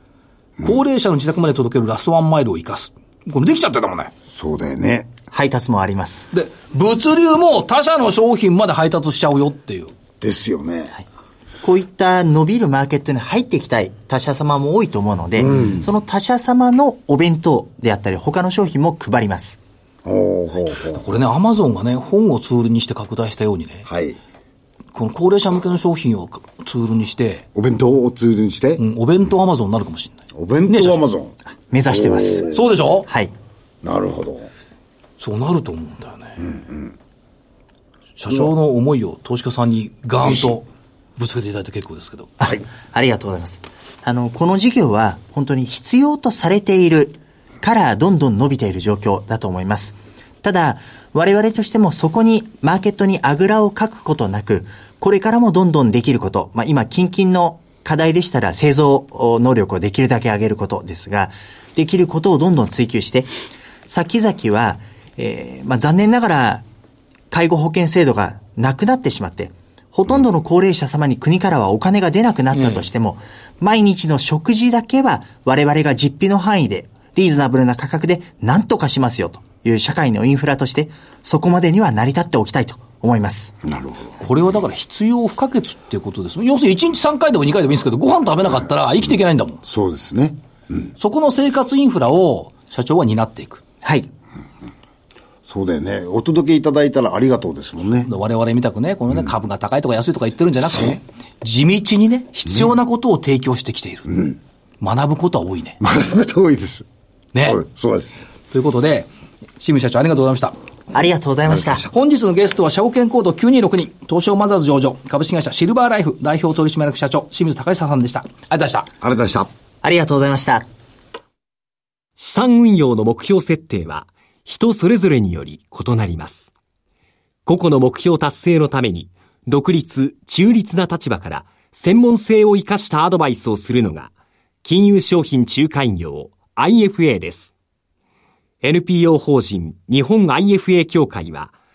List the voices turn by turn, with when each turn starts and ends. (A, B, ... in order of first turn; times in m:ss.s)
0:00.6-0:04.1 A
0:04.3-0:05.1 B
0:05.3-0:06.3 C
0:06.3-0:09.9 A
0:10.2-0:10.9 B
0:11.6-0:19.6 C
0:15.4-0:15.9 B
0:20.0-0:21.0 B
0:20.9-0:23.9 A
0:23.8-0:24.2 B
0:24.9-0:27.5 A
0:27.5-0:28.8 B
0:28.8-0:31.0 A
0:30.3-0:31.3 B
0:31.7-0:32.5 C
0:31.9-0:32.7 B
0:32.5-0:33.1 A
0:33.0-0:33.3 C
0:33.8-0:34.5 B
0:35.2-0:36.4 A
0:36.5-0:36.9 B
0:38.2-0:42.3 A
0:42.4-1:03.3 C
1:03.8-1:06.6 C
1:07.3-1:23.5 C
1:12.5-1:12.8 A
1:23.6-1:24.2 B
1:24.2-1:29.6 A
1:29.6-1:30.8 B
1:31.0-1:33.6 A
1:33.8-1:34.1 C
1:35.5-1:38.1 B
1:38.0-1:45.8 A
1:45.8-1:46.8 B
1:47.3-1:47.6 A
1:47.4-1:48.1 B
1:48.5-1:50.5 A
1:50.9-1:51.8 C
1:51.9-1:58.9 A
1:59.0-1:59.5 B
1:59.8-2:00.6 C
2:02.2-2:06.5 D
2:07.4-2:14.1 D
2:14.6-2:17.5 D
2:18.6-2:21.5 D